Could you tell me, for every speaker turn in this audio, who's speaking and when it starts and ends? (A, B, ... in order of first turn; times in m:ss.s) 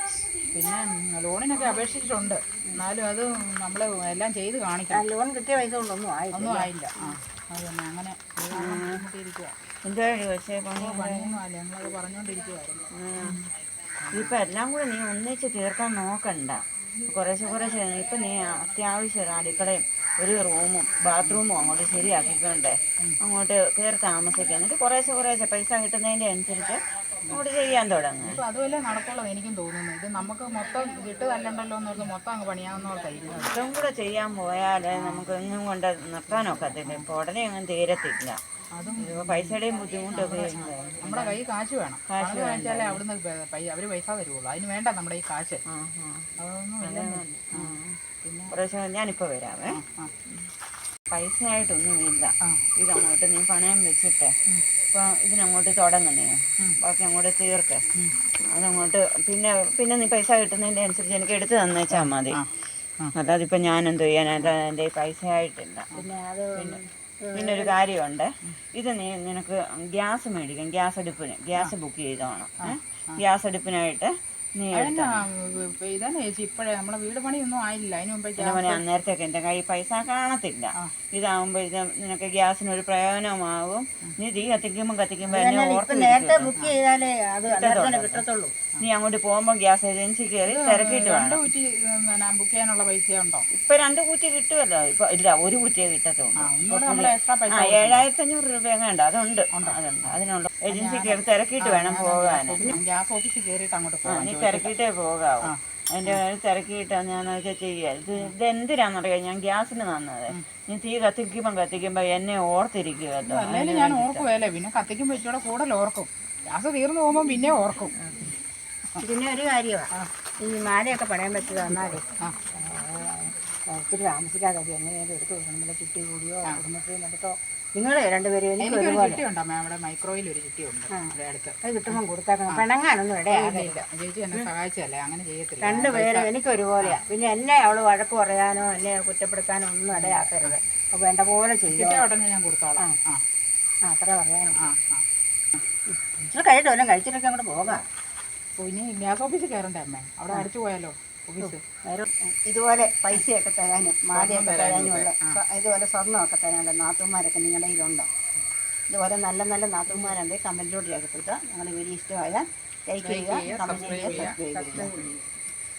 0:00.5-0:05.0 A
0:04.9-0:06.7 B
0:06.3-0:09.6 A
0:08.6-0:09.0 C
0:09.8-0:11.4 C
0:10.8-0:13.4 A
0:12.9-0:13.4 C
0:14.1-0:14.4 A
0:14.1-0:28.4 C
0:28.2-0:33.6 A
0:33.3-0:38.4 C
0:34.9-0:35.3 A
0:36.7-0:37.1 A
0:38.7-0:39.6 A
0:39.0-0:41.4 C
0:40.1-0:45.6 A
0:42.1-0:43.0 C
0:45.7-0:46.3 C
0:46.4-0:48.5 A
0:46.8-0:48.0 C
0:48.5-0:49.8 C
0:49.7-0:50.1 A
0:51.1-0:54.3 C
0:54.9-0:57.9 C
0:58.5-1:02.4 C
1:01.9-1:03.1 A
1:03.2-1:05.9 C
1:06.0-1:07.7 B
1:07.3-1:15.1 C
1:12.6-1:13.2 A
1:14.7-1:18.8 A
1:18.4-1:26.5 C
1:25.3-1:28.6 B
1:27.5-1:28.2 C
1:28.8-1:31.4 C
1:30.5-1:33.5 A
1:33.5-1:42.8 C
1:36.4-1:38.0 A
1:39.5-1:44.7 A
1:44.1-1:54.3 C
1:45.5-1:46.2 A
1:53.2-1:58.0 A
1:59.0-1:59.9 B
2:00.4-2:09.2 B
2:02.2-2:02.5 A
2:08.6-2:12.0 A
2:10.9-2:13.8 B
2:13.3-2:16.3 A
2:15.6-2:22.0 B
2:19.9-2:20.6 A
2:21.7-2:23.2 A
2:23.8-2:24.7 B
2:24.6-2:25.0 A
2:25.9-2:27.8 B
2:28.6-2:31.6 A
2:31.4-2:38.1 B
2:34.1-2:35.4 A
2:38.9-2:45.1 B
2:43.0-2:45.0 A